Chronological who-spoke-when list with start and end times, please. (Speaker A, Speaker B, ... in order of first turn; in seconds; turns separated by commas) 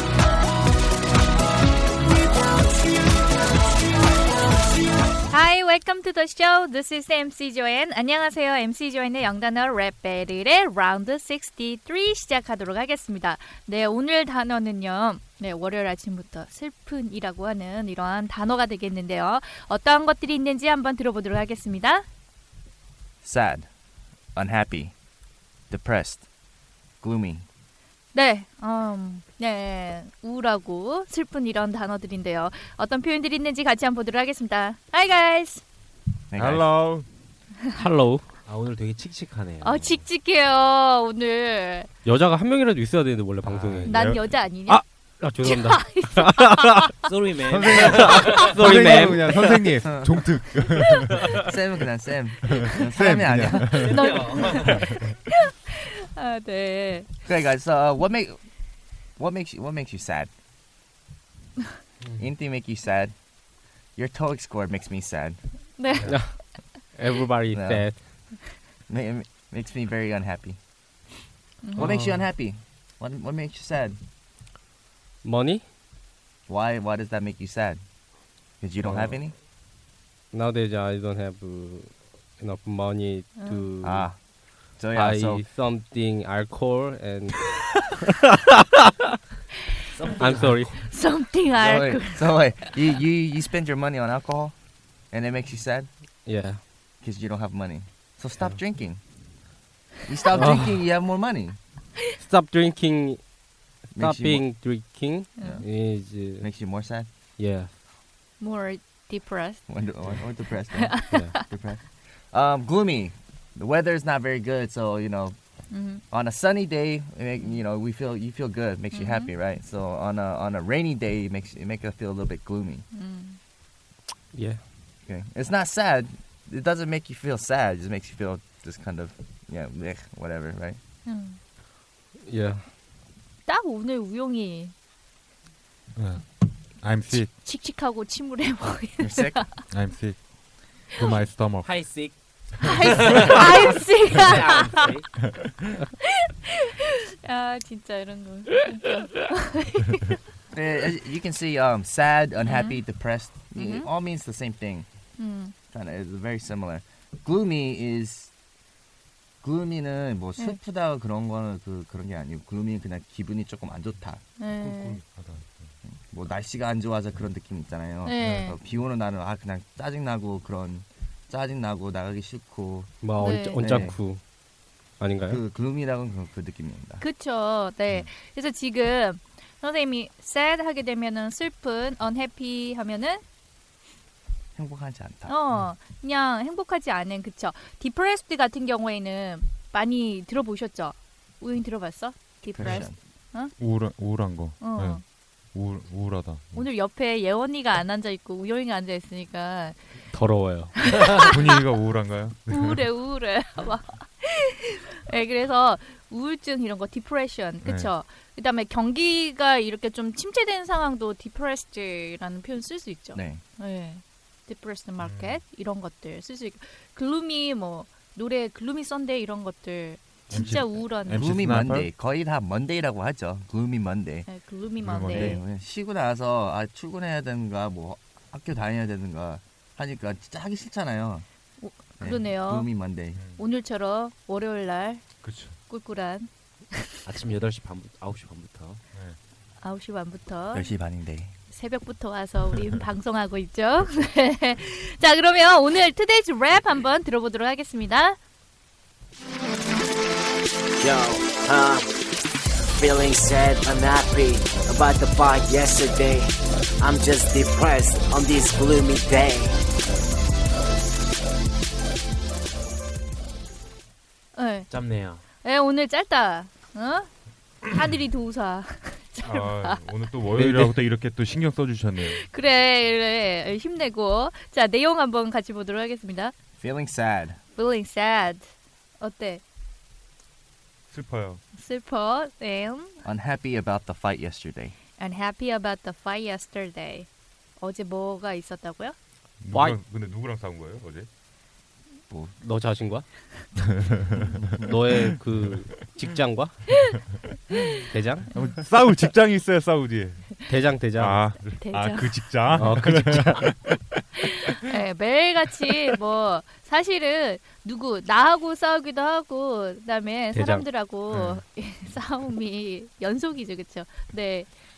Speaker A: 5.3-22.1, Speaker B: 23.2-23.7, Speaker B: 24.4-24.9, Speaker B: 25.7-26.3, Speaker B: 27.0-27.4, Speaker A: 28.1-35.6, Speaker B: 36.3-36.6, Speaker C: 36.3-37.0, Speaker D: 37.7-38.3, Speaker E: 38.5-40.0, Speaker A: 39.6-41.9, Speaker D: 42.0-44.0, Speaker E: 43.5-44.0, Speaker A: 43.8-44.8, Speaker C: 43.9-44.3, Speaker D: 44.6-46.9, Speaker A: 45.4-47.0, Speaker E: 47.0-48.9, Speaker C: 47.5-51.3, Speaker D: 47.8-49.6, Speaker B: 49.8-50.3, Speaker B: 51.4-54.3, Speaker C: 52.7-54.1, Speaker A: 53.7-57.1, Speaker E: 54.0-54.8, Speaker B: 57.2-58.4, Speaker B: 59.2-60.3, Speaker B: 62.2-63.1, Speaker B: 64.0-65.4, Speaker A: 65.8-66.3, Speaker D: 66.0-68.1, Speaker B: 67.5-67.9, Speaker B: 68.9-70.6, Speaker A: 71.6-71.9, Speaker B: 71.8-74.0, Speaker D: 71.8-72.2, Speaker D: 75.2-75.6, Speaker B: 76.5-77.8, Speaker B: 78.6-79.3, Speaker D: 78.8-79.2, Speaker D: 80.3-84.1, Speaker A: 83.3-83.7, Speaker B: 83.8-84.2, Speaker B: 84.8-85.5, Speaker D: 84.9-89.1, Speaker E: 89.9-90.6, Speaker D: 90.1-90.8, Speaker A: 90.7-92.5, Speaker B: 91.5-94.5, Speaker B: 95.1-95.9, Speaker D: 96.2-96.6, Speaker B: 97.0-99.0, Speaker B: 100.0-101.6, Speaker D: 100.3-100.8, Speaker D: 102.2-103.2, Speaker B: 103.9-104.5, Speaker D: 103.9-106.5, Speaker A: 105.4-105.6, Speaker B: 105.4-105.7, Speaker B: 106.4-107.1, Speaker D: 107.4-107.7, Speaker A: 108.4-109.6, Speaker B: 109.7-115.3, Speaker A: 110.7-111.4, Speaker D: 111.0-111.4, Speaker A: 115.7-116.0, Speaker B: 116.1-122.8, Speaker A: 118.9-119.3, Speaker A: 122.9-123.4, Speaker D: 124.3-124.6, Speaker B: 125.0-130.8, Speaker A: 131.1-131.4, Speaker D: 132.2-132.7, Speaker A: 133.4-134.7, Speaker C: 135.9-137.3, Speaker A: 137.3-139.6, Speaker B: 139.0-139.5, Speaker C: 139.7-140.2, Speaker C: 140.8-141.8, Speaker E: 141.6-145.1, Speaker A: 142.6-144.9, Speaker A: 146.8-150.2, Speaker B: 150.5-154.8, Speaker A: 152.4-152.8, Speaker A: 153.5-153.9, Speaker A: 155.2-155.5, Speaker B: 155.7-158.3, Speaker B: 159.4-164.2, Speaker A: 164.4-165.0, Speaker C: 164.6-165.7, Speaker B: 165.8-172.9, Speaker A: 168.0-168.6, Speaker D: 173.0-174.2, Speaker A: 173.2-173.9, Speaker B: 173.5-174.0, Speaker D: 175.0-175.4, Speaker B: 175.3-177.1, Speaker A: 177.0-183.2, Speaker B: 184.6-185.4, Speaker A: 185.2-193.5, Speaker B: 192.5-192.9, Speaker C: 193.6-195.0, Speaker A: 194.6-195.0, Speaker C: 195.5-196.7, Speaker A: 196.5-199.8, Speaker D: 200.1-201.1, Speaker A: 200.8-201.3, Speaker C: 201.1-202.9, Speaker A: 202.5-221.2, Speaker C: 207.6-207.9, Speaker B: 213.1-213.4, Speaker C: 215.0-215.4, Speaker C: 220.3-221.9, Speaker B: 221.1-224.3, Speaker A: 224.2-225.4, Speaker C: 224.8-225.4, Speaker B: 225.1-231.2, Speaker A: 231.6-232.7, Speaker B: 232.0-233.2, Speaker C: 233.1-233.4, Speaker A: 233.4-235.1, Speaker C: 235.2-235.6, Speaker A: 235.7-237.0, Speaker E: 237.1-238.8, Speaker A: 239.6-240.7, Speaker B: 240.5-241.3, Speaker A: 241.5-248.2, Speaker F: 250.8-251.9, Speaker F: 252.7-259.6, Speaker A: 264.3-264.7, Speaker E: 264.7-265.2, Speaker A: 265.4-267.1, Speaker A: 267.7-269.8, Speaker C: 269.2-272.2, Speaker D: 270.3-270.8, Speaker A: 272.0-276.3, Speaker B: 276.6-277.4, Speaker A: 277.6-279.4, Speaker C: 280.9-281.4, Speaker A: 281.5-283.0, Speaker B: 283.1-284.8, Speaker A: 285.0-287.1, Speaker A: 287.6-289.0, Speaker C: 289.4-291.1, Speaker D: 289.5-289.8, Speaker D: 292.4-293.1, Speaker C: 293.6-295.2, Speaker B: 294.4-294.7, Speaker D: 294.6-296.8, Speaker D: 297.9-298.3, Speaker C: 298.3-300.4, Speaker D: 300.4-301.3, Speaker C: 300.9-303.9, Speaker A: 301.4-302.1, Speaker D: 302.5-303.5, Speaker A: 304.5-314.5, Speaker D: 310.3-310.7, Speaker C: 311.1-311.4